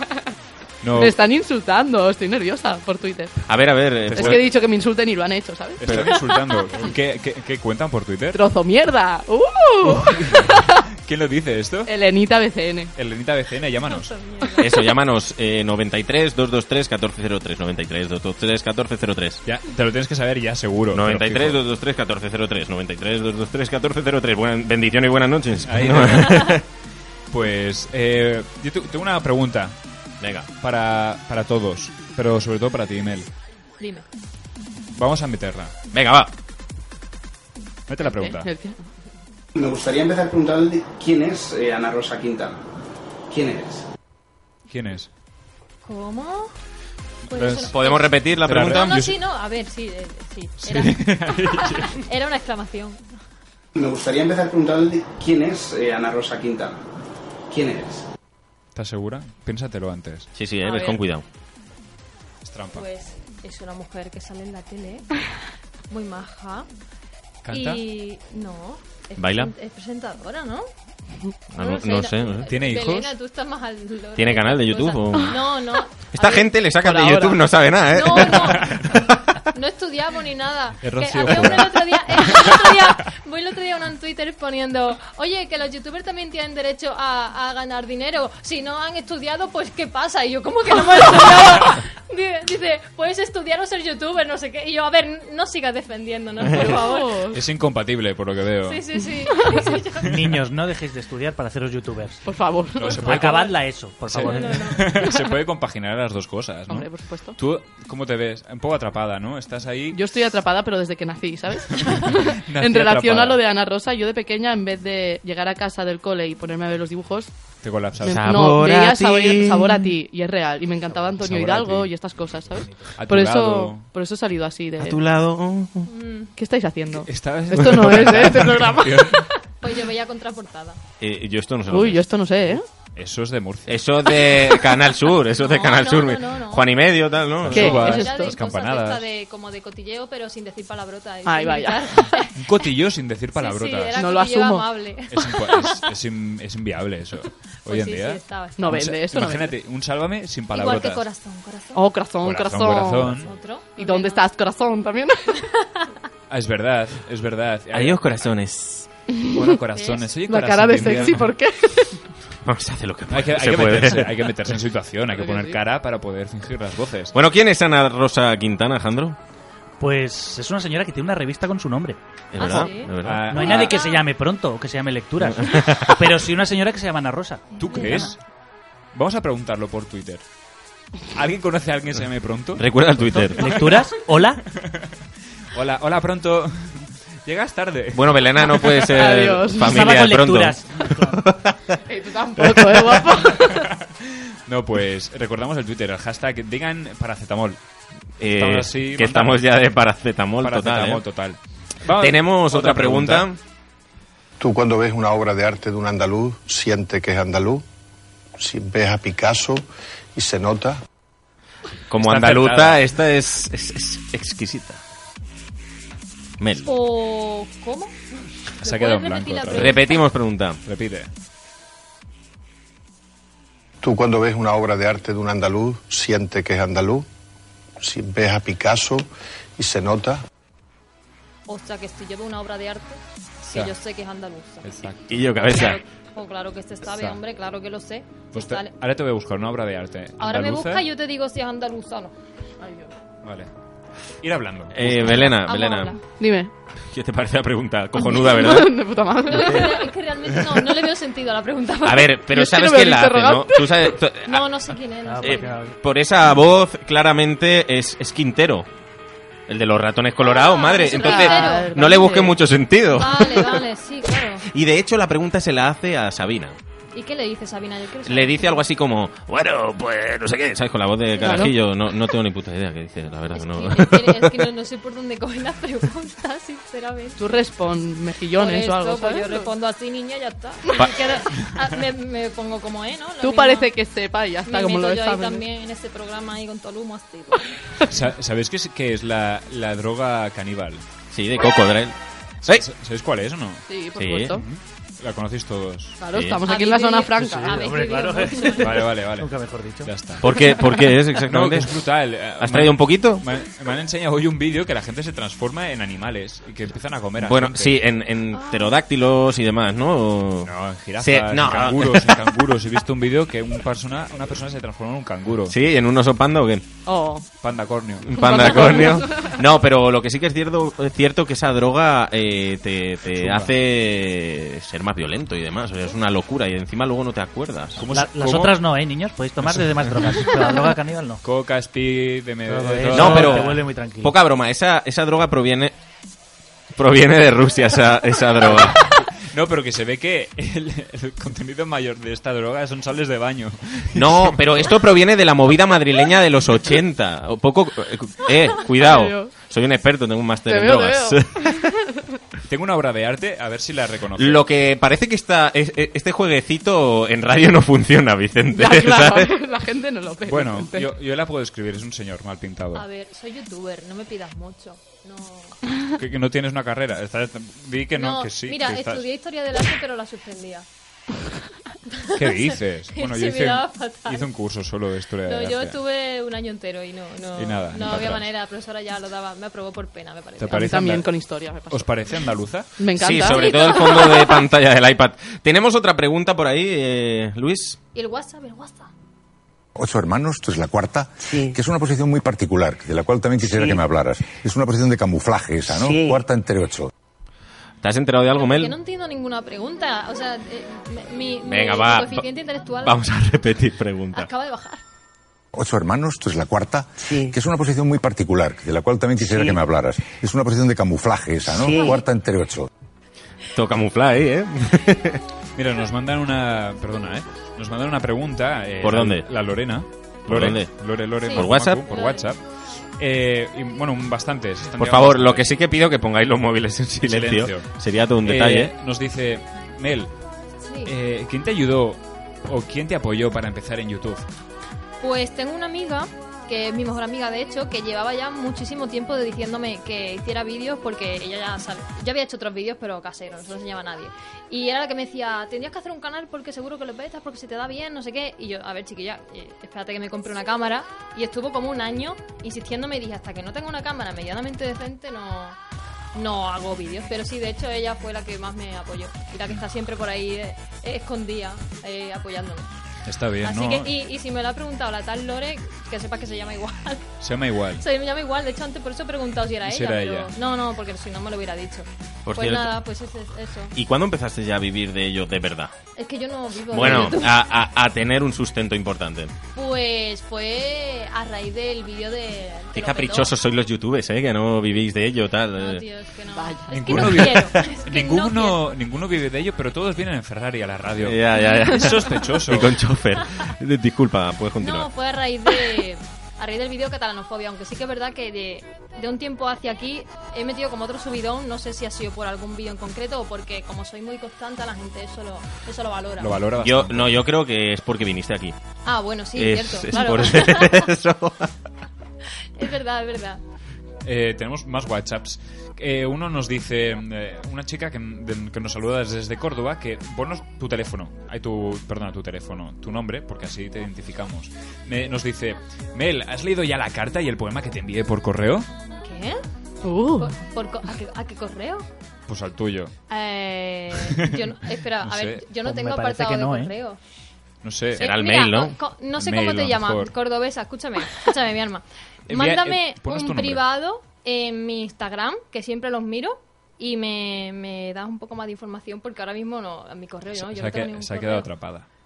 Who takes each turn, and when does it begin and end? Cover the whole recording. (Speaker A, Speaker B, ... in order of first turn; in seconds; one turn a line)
Speaker A: 0.8-1.1
Speaker B: 0.9-3.4
Speaker C: 3.5-4.5
Speaker A: 4.1-4.5
Speaker B: 4.1-5.8
Speaker A: 5.8-8.4
Speaker D: 6.2-6.7
Speaker B: 8.3-10.8
Speaker A: 9.8-11.9
Speaker B: 11.8-12.9
Speaker A: 12.9-14.2
Speaker D: 13.8-14.8
Speaker C: 14.6-19.4
Speaker A: 19.4-21.6
Speaker C: 20.9-26.6
Speaker A: 25.6-26.6
Speaker A: 27.3-29.8
Speaker C: 30.2-30.5
Speaker A: 30.6-33.3
Speaker D: 33.8-34.0
Speaker A: 34.9-35.7
Speaker C: 35.9-36.3
Speaker A: 37.9-38.5
Speaker B: 38.2-38.8
Speaker E: 39.5-42.6
Speaker E: 43.3-43.8
Speaker A: 44.7-45.1
Speaker D: 45.8-46.5
Speaker D: 47.3-53.0
Speaker A: 47.3-47.8
Speaker C: 47.6-48.9
Speaker A: 48.4-49.1
Speaker A: 50.6-52.0
Speaker E: 53.8-56.8
Speaker E: 57.5-58.0
Speaker A: 58.7-60.3
Speaker C: 60.3-61.2
Speaker D: 60.6-61.0
Speaker A: 62.4-62.9
Speaker D: 62.7-65.0
Speaker D: 65.9-66.7
Speaker A: 67.4-67.8
Speaker D: 67.5-70.7
Speaker C: 69.2-69.5
Speaker C: 71.5-72.5
Speaker D: 71.6-76.5
Speaker A: 72.5-73.1
Speaker C: 74.2-75.4
Speaker C: 76.1-78.7
Speaker B: 76.8-77.4
Speaker D: 77.9-78.7
Speaker A: 78.5-78.9
Speaker D: 79.5-97.1
Speaker A: 80.8-82.5
Speaker B: 96.5-97.4
Speaker A: 97.3-98.8
Speaker D: 98.7-100.1
Speaker F: 100.1-102.2
Speaker B: 102.2-103.0
Speaker A: 102.8-103.5
Speaker F: 102.9-104.7
Speaker A: 104.1-110.0
Speaker D: 104.2-104.9
Speaker B: 106.7-107.4
Speaker B: 109.9-117.3
Speaker A: 111.9-113.4
Speaker A: 117.6-118.3
Speaker C: 118.0-119.9
Speaker B: 118.0-125.0
Speaker F: 120.9-121.2
Speaker A: 121.2-121.9
Speaker F: 122.5-122.9
Speaker A: 123.0-123.9
Speaker C: 124.8-125.9
Speaker D: 125.9-126.3
Speaker B: 126.3-129.2
Speaker A: 127.0-129.2
Speaker C: 127.6-128.1
Speaker D: 129.6-130.8
Speaker C: 131.0-132.1
Speaker B: 131.7-132.6
Speaker A: 132.9-133.8
Speaker C: 133.7-137.8
Speaker D: 135.3-136.7
Speaker A: 137.4-139.1
Speaker B: 137.5-138.3
Speaker D: 137.6-142.4
Speaker B: 141.2-142.0
Speaker A: 142.3-144.0
Speaker D: 143.3-145.1
Speaker B: 143.9-144.7
Speaker A: 145.1-151.0
Speaker D: 147.7-148.8
Speaker B: 148.6-149.5
Speaker D: 150.5-151.8
Speaker B: 151.7-153.2
Speaker A: 152.2-153.3
Speaker D: 153.2-154.3
Speaker B: 153.7-155.2
Speaker D: 155.6-155.9
Speaker A: 156.3-158.2
Speaker C: 157.7-158.9
Speaker B: 159.1-159.6
Speaker A: 159.3-161.3
Speaker D: 159.7-160.1
Speaker B: 160.2-161.9
Speaker C: 162.4-164.3
Speaker A: 163.1-167.1
Speaker B: 165.2-165.6
Speaker C: 167.1-169.2
Speaker F: 169.8-172.0
Speaker C: 172.3-173.6
Speaker D: 172.4-174.0
Speaker A: 173.0-173.7
Speaker F: 173.3-178.1
Speaker C: 175.2-175.9
Speaker D: 177.6-178.1
Speaker A: 177.6-178.2
Speaker A: 178.9-180.2
Speaker A: 181.1-183.6
Speaker C: 182.6-183.5
Speaker F: 183.4-184.4
Speaker A: 184.6-184.9
Speaker A: 185.5-188.2
Speaker C: 187.9-191.6
Speaker B: 188.9-189.7
Speaker F: 189.6-191.1
Speaker B: 191.9-193.7
Speaker C: 192.4-193.1
Speaker A: 194.5-197.6
Speaker C: 198.2-201.0
Speaker A: 198.3-199.4
Speaker A: 200.4-203.3
Speaker C: 202.0-203.4
Speaker G: 204.4-207.6
Speaker G: 208.4-210.8
Speaker C: 211.9-214.8
Speaker A: 212.0-212.8
Speaker C: 216.4-216.7
Speaker D: 216.6-217.9
Speaker A: 218.6-219.9
Speaker D: 218.6-220.1
Speaker C: 219.5-220.6
Speaker A: 220.6-221.1
Speaker G: 223.8-227.1
Speaker G: 227.8-230.2
Speaker D: 231.5-234.6
Speaker A: 234.6-235.2
Speaker C: 235.1-235.8
Speaker D: 235.5-238.7
Speaker A: 236.9-237.2
Speaker A: 238.3-240.8
Speaker D: 240.2-242.1
Speaker B: 242.6-242.9
Speaker A: 243.2-243.5
Speaker A: 244.2-245.3
Speaker C: 244.7-245.9
Speaker D: 245.2-246.0
Speaker B: 246.2-246.5
Speaker C: 246.9-248.8
Speaker B: 248.0-249.7
Speaker D: 249.3-252.1
Speaker C: 249.3-249.7
Speaker C: 251.8-254.5
Speaker B: 252.3-253.9
Speaker D: 254.3-255.6
Speaker F: 255.0-255.8
Speaker C: 255.2-258.7
Speaker C: 259.5-263.6
Speaker D: 260.2-261.7
Speaker B: 260.8-262.4
Speaker D: 262.9-264.4
Speaker C: 264.4-266.6
Speaker D: 266.9-268.6
Speaker C: 268.0-274.4
Speaker B: 271.2-271.5
Speaker D: 273.3-277.3
Speaker B: 277.2-279.5
Speaker D: 278.4-283.7
Speaker B: 283.2-285.4
Speaker D: 284.4-287.4
Speaker A: 287.9-290.8
Speaker C: 291.1-292.6
Speaker A: 292.4-293.6
Speaker B: 293.7-294.4
Speaker C: 293.9-294.4
Speaker A: 294.4-296.0
Speaker B: 296.0-297.5
Speaker C: 296.1-296.4
Speaker D: 296.4-298.8
Speaker F: 297.3-299.9
Speaker A: 298.6-300.3
Speaker C: 300.2-301.8
Speaker A: 301.3-307.7
Speaker C: 302.4-303.2
Speaker C: 307.2-312.2
Speaker D: 308.3-308.8
Speaker A: 310.4-315.5
Speaker C: 315.5-316.6
Speaker B: 316.9-317.2
Speaker A: 317.4-318.3
Speaker C: 318.0-327.8
Speaker B: 318.3-319.3
Speaker A: 323.1-323.5
Speaker A: 327.8-328.6
Speaker F: 327.9-331.2
Speaker A: 329.4-330.3
Speaker A: 331.2-333.6
Speaker F: 332.5-334.1
Speaker C: 332.9-335.7
Speaker C: 336.7-338.8
Speaker A: 338.4-344.7
Speaker C: 343.9-351.7
Speaker B: 348.8-349.3
Speaker B: 350.5-351.4
Speaker A: 352.5-354.4
Speaker C: 354.2-359.3
Speaker B: 358.5-360.9
Speaker A: 360.2-362.8
Speaker D: 362.7-365.6
Speaker A: 366.0-369.1
Speaker D: 367.9-370.6
Speaker D: 372.1-374.3
Speaker A: 372.1-375.8
Speaker D: 375.2-380.6
Speaker A: 377.4-378.3
Speaker A: 380.4-381.1
Speaker B: 380.5-381.9
Speaker A: 381.7-382.7
Speaker B: 382.8-383.5
Speaker C: 382.9-387.8
Speaker D: 383.3-384.4
Speaker D: 387.9-388.9
Speaker H: 389.8-396.9
Speaker C: 397.8-398.7
Speaker D: 398.3-402.9
Speaker C: 401.4-402.2
Speaker C: 402.8-404.3
Speaker D: 404.1-404.8
Speaker H: 405.5-412.7
Speaker D: 411.6-412.0
Speaker C: 413.5-415.2
Speaker A: 415.6-422.4
Speaker C: 418.8-419.3
Speaker C: 420.3-421.8
Speaker D: 421.2-422.2
Speaker A: 423.0-425.5
Speaker C: 424.8-428.7
Speaker A: 427.0-427.7
Speaker A: 428.2-430.1
Speaker D: 430.6-430.9
Speaker A: 430.8-434.2
Speaker D: 435.0-455.6
Speaker D: 456.1-462.7
Speaker A: 463.1-463.9
Speaker D: 463.4-467.1
Speaker A: 467.2-467.8
Speaker D: 467.8-473.7
Speaker A: 469.6-470.3
Speaker C: 472.3-472.7
Speaker C: 473.8-475.7
Speaker D: 475.9-477.4
Speaker C: 476.7-479.3
Speaker D: 479.5-483.3
Speaker C: 482.7-485.8
Speaker D: 485.6-488.6
Speaker B: 486.4-486.7
Speaker A: 486.7-492.7
Speaker C: 491.0-494.9
Speaker D: 494.6-506.3
Speaker A: 506.2-507.1
Speaker C: 506.6-508.6
Speaker D: 508.8-510.9
Speaker C: 509.4-511.5
Speaker D: 512.6-513.4
Speaker A: 514.0-528.7
Speaker D: 529.0-529.4
Speaker B: 529.8-530.4
Speaker D: 530.2-531.8
Speaker A: 532.3-532.9
Speaker D: 533.1-537.0
Speaker A: 534.1-534.4
Speaker A: 535.0-535.5
Speaker F: 535.6-536.8
Speaker A: 537.6-538.1
Speaker C: 538.0-538.7
Speaker D: 538.0-551.5
Speaker A: 539.2-540.1
Speaker A: 542.3-543.6
Speaker A: 550.3-551.9